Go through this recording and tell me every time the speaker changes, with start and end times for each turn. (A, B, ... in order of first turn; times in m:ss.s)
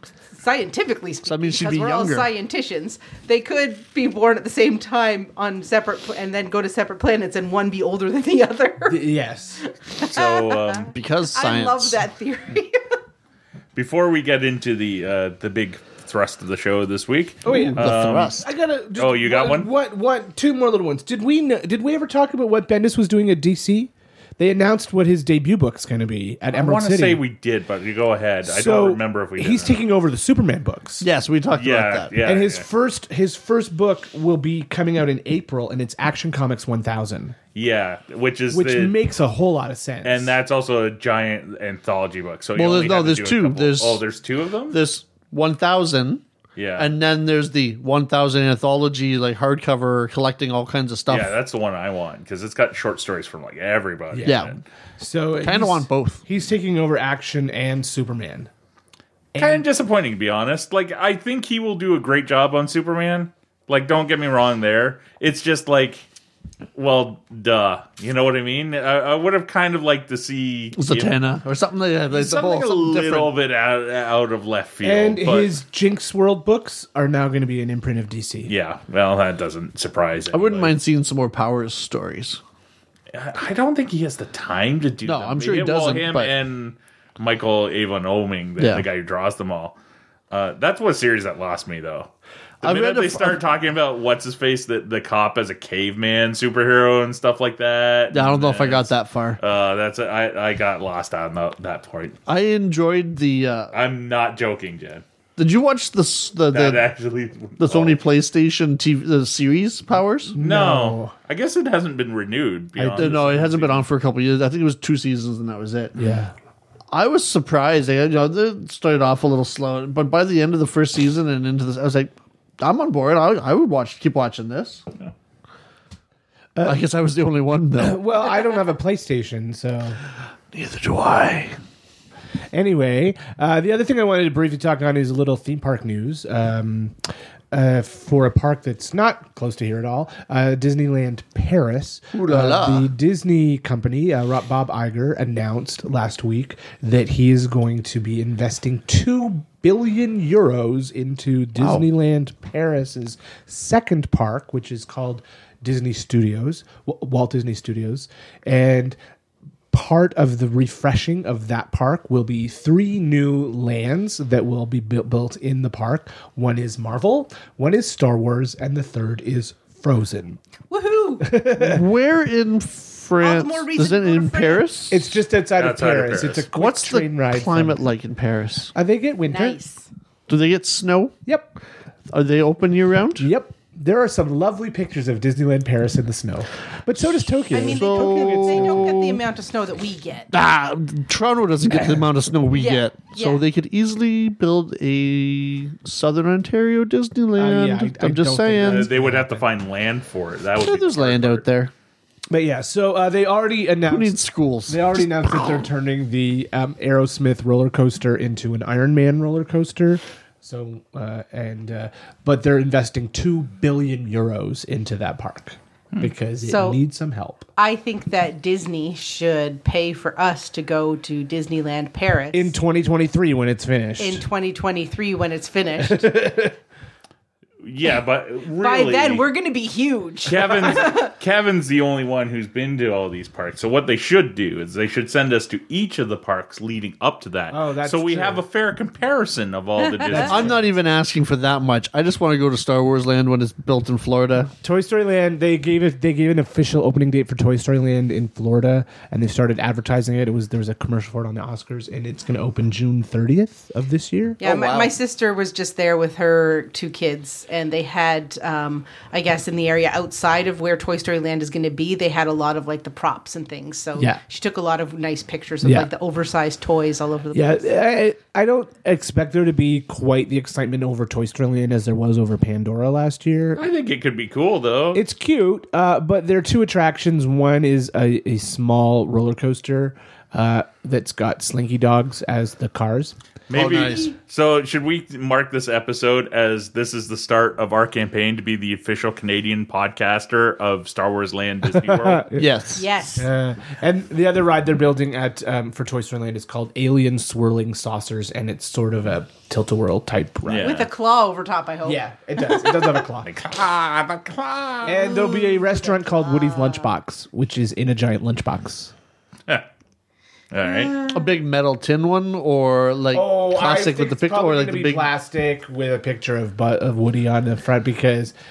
0:00.3-0:09.1 A
0:01.2-0:02.3 B
0:08.9-0:09.6 C
0:09.6-0:13.0 A
0:10.0-0:10.9 D
0:10.9-0:12.0 B
0:13.7-0:18.4 D
0:17.4-0:27.2 C
0:17.5-0:18.4 B
0:19.0-0:19.7 D
0:26.5-0:29.8 D
0:28.4-0:31.0 C
0:31.0-0:32.1 B
0:31.5-0:32.6 D
0:32.2-0:37.4 C
0:37.5-0:39.0 D
0:38.5-0:40.3 C
0:40.0-0:44.8 D
0:42.6-0:44.0 B
0:44.7-0:46.2 B
0:46.6-0:46.9 D
0:46.8-0:51.3 B
0:51.1-0:54.6 D
0:54.1-0:54.4 C
0:54.2-0:54.5 B
0:55.0-0:58.5 C
0:55.4-0:56.2 B
0:59.3-0:59.6 C
0:59.4-1:06.0 D
1:06.7-1:11.2 D
1:10.8-1:13.3 B
1:12.1-1:15.6 D
1:14.8-1:18.5 C
1:18.5-1:20.8 D
1:20.3-1:22.4 B
1:23.1-1:29.8 D
1:25.0-1:26.3 B
1:28.6-1:28.8 B
1:30.3-1:32.1 D
1:32.6-1:33.4 B
1:32.6-1:42.2 D
1:38.1-1:39.4 B
1:42.3-1:43.7 B
1:43.7-1:45.0 D
1:45.4-1:46.8 B
1:46.5-1:48.0 D
1:47.6-1:50.3 B
1:50.3-1:51.1 C
1:50.4-1:53.8 D
1:52.8-1:53.1 C
1:52.8-1:55.9 B
1:56.0-1:56.3 C
1:56.9-2:04.8 B
2:06.5-2:06.8 C
2:06.6-2:08.0 B
2:07.8-2:10.0 C
2:10.5-2:11.6 B
2:12.5-2:39.0 C
2:22.1-2:22.9 B
2:31.6-2:31.8 B
2:39.7-2:50.4 C
2:50.7-2:51.3 A
2:51.2-2:51.9 C
2:51.5-2:55.1 B
2:53.2-2:54.6 A
2:54.9-2:57.8 C
2:55.6-2:56.5 D
2:56.5-2:58.7 B
2:58.7-2:59.6 C
2:59.3-2:59.9 A
3:00.3-3:01.2 B
3:01.2-3:01.5 C
3:02.1-3:03.3 B
3:03.2-3:09.0 C
3:07.5-3:10.3 A
3:07.6-3:09.2 B
3:10.3-3:18.9 B
3:11.7-3:12.0 C
3:12.5-3:13.4 A
3:17.3-3:19.5 C
3:18.6-3:21.4 D
3:20.6-3:21.7 B
3:22.3-3:37.4 C
3:23.9-3:25.6 B
3:36.4-3:36.8 A
3:37.6-3:42.5 A
3:42.3-3:44.2 C
3:44.0-3:46.1 A
3:45.8-3:46.6 C
3:47.6-3:49.2 D
3:48.6-3:51.1 A
3:50.2-4:00.6 D
3:57.5-3:58.4 C
3:59.8-4:00.3 A
4:00.1-4:00.6 C
4:00.2-4:04.5 B
4:04.6-4:14.4 C
4:14.4-4:27.7 A
4:14.4-4:14.9 B
4:25.6-4:25.9 C
4:27.3-4:33.6 C
4:33.6-4:35.0 D
4:34.9-4:43.2 C
4:43.5-4:52.2 D
4:43.5-4:44.1 B
4:51.6-4:52.6 C
4:52.4-4:52.8 B
4:52.7-4:53.3 A
4:53.2-5:00.8 C
5:00.4-5:00.9 D
5:00.6-5:03.0 A
5:01.8-5:03.3 C
5:03.2-5:05.1 D
5:04.8-5:08.9 C
5:05.0-5:06.9 A
5:10.5-5:11.0 D
5:10.6-5:11.2 A
5:11.0-5:15.1 B
5:13.1-5:18.3 C